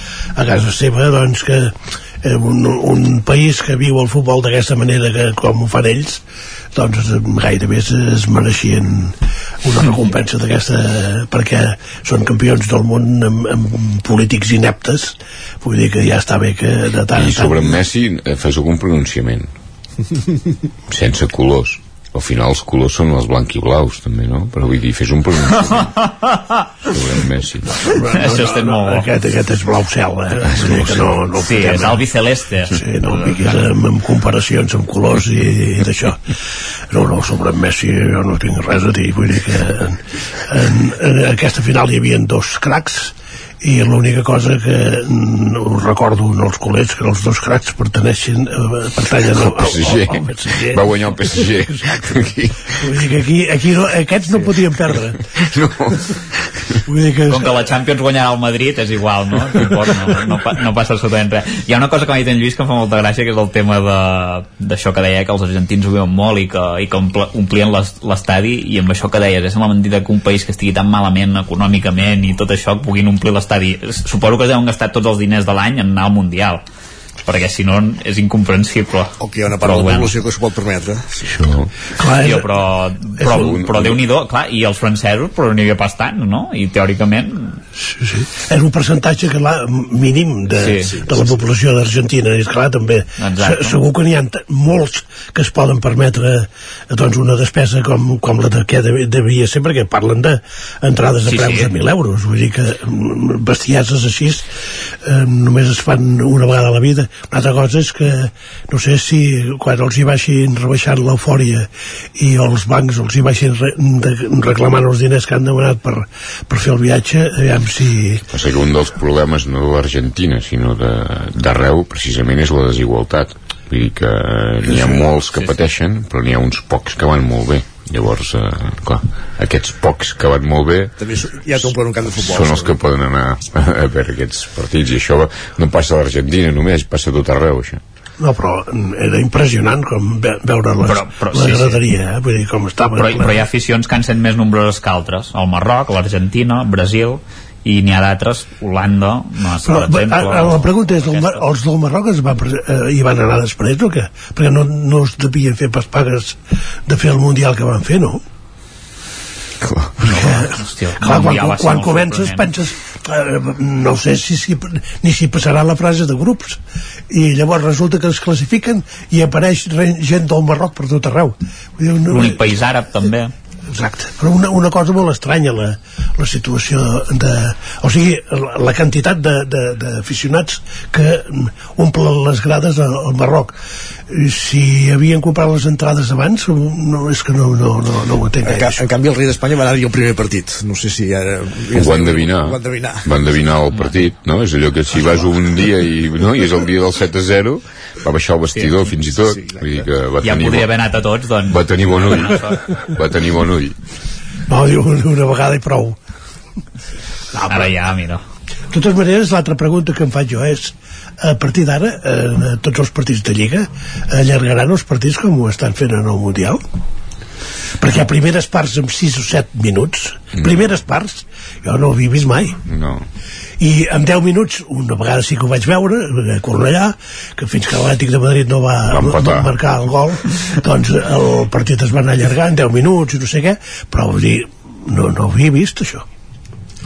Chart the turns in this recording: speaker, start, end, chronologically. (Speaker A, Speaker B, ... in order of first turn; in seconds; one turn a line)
Speaker A: 0.4-6.2
Speaker A: 6.7-17.8
Speaker B: 17.1-19.5
Speaker B: 20.9-25.9
Speaker C: 26.1-26.4
Speaker B: 26.9-27.7
Speaker A: 27.8-32.0
Speaker C: 28.2-29.1
Speaker B: 30.6-31.1
Speaker C: 31.4-32.8
Speaker A: 32.7-36.2
Speaker A: 36.9-52.2
Speaker B: 49.1-53.0
Speaker A: 52.8-55.2
Speaker B: 54.3-56.1
Speaker A: 56.9-57.7
Speaker C: 57.3-76.6
Speaker C: 77.2-80.2
Speaker D: 79.2-81.3
Speaker B: 81.3-81.7
Speaker A: 82.0-82.5
Speaker C: 82.2-87.6
Speaker A: 83.2-83.6
Speaker B: 83.3-83.9
Speaker A: 87.9-104.4
Speaker C: 90.6-90.9
Speaker C: 93.2-93.8
Speaker C: 101.3-101.7
Speaker A: 105.0-118.2
Speaker B: 118.3-130.9
Speaker C: 124.8-125.5
Speaker D: 131.0-132.8
Speaker B: 132.2-137.8
Speaker A: 138.2-143.4
Speaker C: 140.9-141.8
Speaker C: 143.0-151.5
Speaker A: 149.6-158.2
Speaker B: 159.6-160.0
Speaker A: 160.1-172.4
Speaker C: 160.1-162.4
Speaker C: 172.1-173.3
Speaker A: 173.7-183.5
Speaker A: 184.1-188.8
Speaker D: 188.4-193.1
Speaker B: 191.7-200.7
Speaker D: 194.9-195.3
Speaker D: 199.2-199.7
Speaker C: 200.2-202.7
Speaker B: 201.5-202.4
Speaker B: 202.9-203.8
Speaker A: 204.5-206.0
Speaker A: 207.4-207.7
Speaker C: 207.5-208.2
Speaker A: 208.7-216.6
Speaker A: 217.8-222.6
Speaker B: 220.4-220.8
Speaker B: 222.7-223.0
Speaker A: 223.6-236.1
Speaker B: 228.9-229.7